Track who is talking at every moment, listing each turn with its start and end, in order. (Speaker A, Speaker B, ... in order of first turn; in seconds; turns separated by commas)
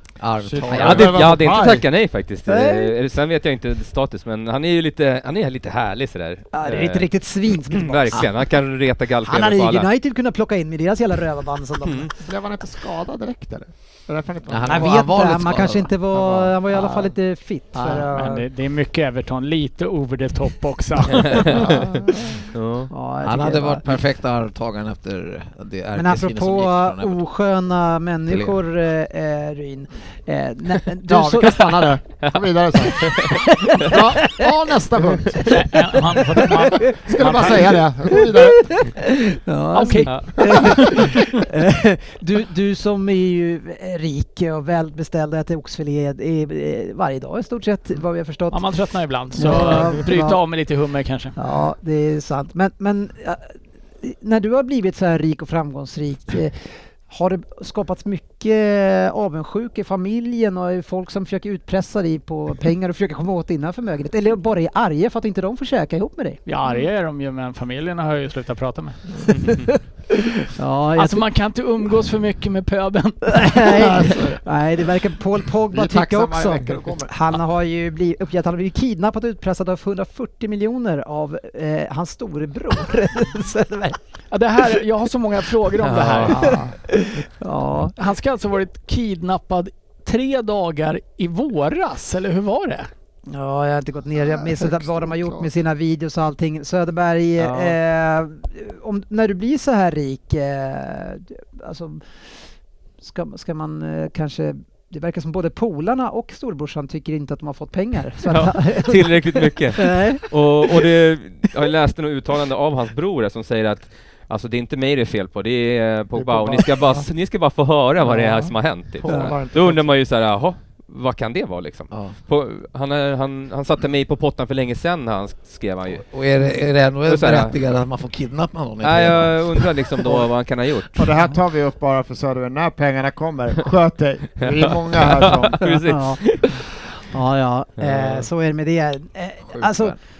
Speaker A: 0.2-1.4, Speaker B: 0.4-1.8, Speaker C: 0.7-7.1, Speaker D: 2.5-2.9, Speaker D: 6.5-8.3, Speaker C: 7.7-9.9, Speaker D: 9.2-12.1, Speaker C: 11.8-12.1, Speaker B: 12.2-15.1, Speaker A: 14.5-15.9, Speaker D: 14.7-18.4, Speaker B: 16.1-16.6, Speaker A: 16.7-17.1, Speaker E: 18.1-21.5, Speaker C: 21.4-21.6, Speaker B: 21.4-22.4, Speaker C: 22.5-22.9, Speaker D: 22.9-24.0, Speaker A: 23.2-27.2, Speaker D: 25.9-31.9, Speaker A: 28.3-28.6, Speaker B: 31.1-35.4, Speaker C: 33.0-33.3, Speaker D: 33.3-34.4, Speaker E: 35.5-37.5, Speaker D: 36.3-48.6, Speaker B: 36.9-38.8, Speaker E: 39.7-41.1, Speaker B: 40.5-40.8, Speaker E: 48.5-51.4, Speaker D: 49.3-50.4, Speaker D: 51.4-66.4, Speaker E: 66.5-69.0, Speaker D: 69.4-69.8, Speaker D: 70.5-71.2, Speaker E: 71.0-73.8, Speaker D: 73.3-84.0, Speaker B: 73.7-74.4, Speaker B: 75.7-77.1, Speaker E: 84.3-86.6, Speaker C: 85.8-86.6, Speaker B: 86.2-86.7, Speaker D: 86.4-87.9, Speaker E: 88.0-92.9, Speaker D: 93.3-102.0, Speaker B: 94.2-95.5, Speaker C: 97.4-97.7, Speaker D: 103.0-110.8, Speaker C: 108.2-126.0, Speaker B: 116.2-117.0, Speaker B: 118.0-119.9, Speaker D: 119.1-119.3, Speaker A: 121.9-122.2, Speaker A: 125.9-129.8, Speaker C: 127.0-127.5, Speaker C: 128.8-131.1, Speaker B: 130.9-135.6, Speaker C: 134.4-136.6, Speaker D: 135.7-139.9, Speaker C: 137.8-138.3, Speaker A: 139.6-139.9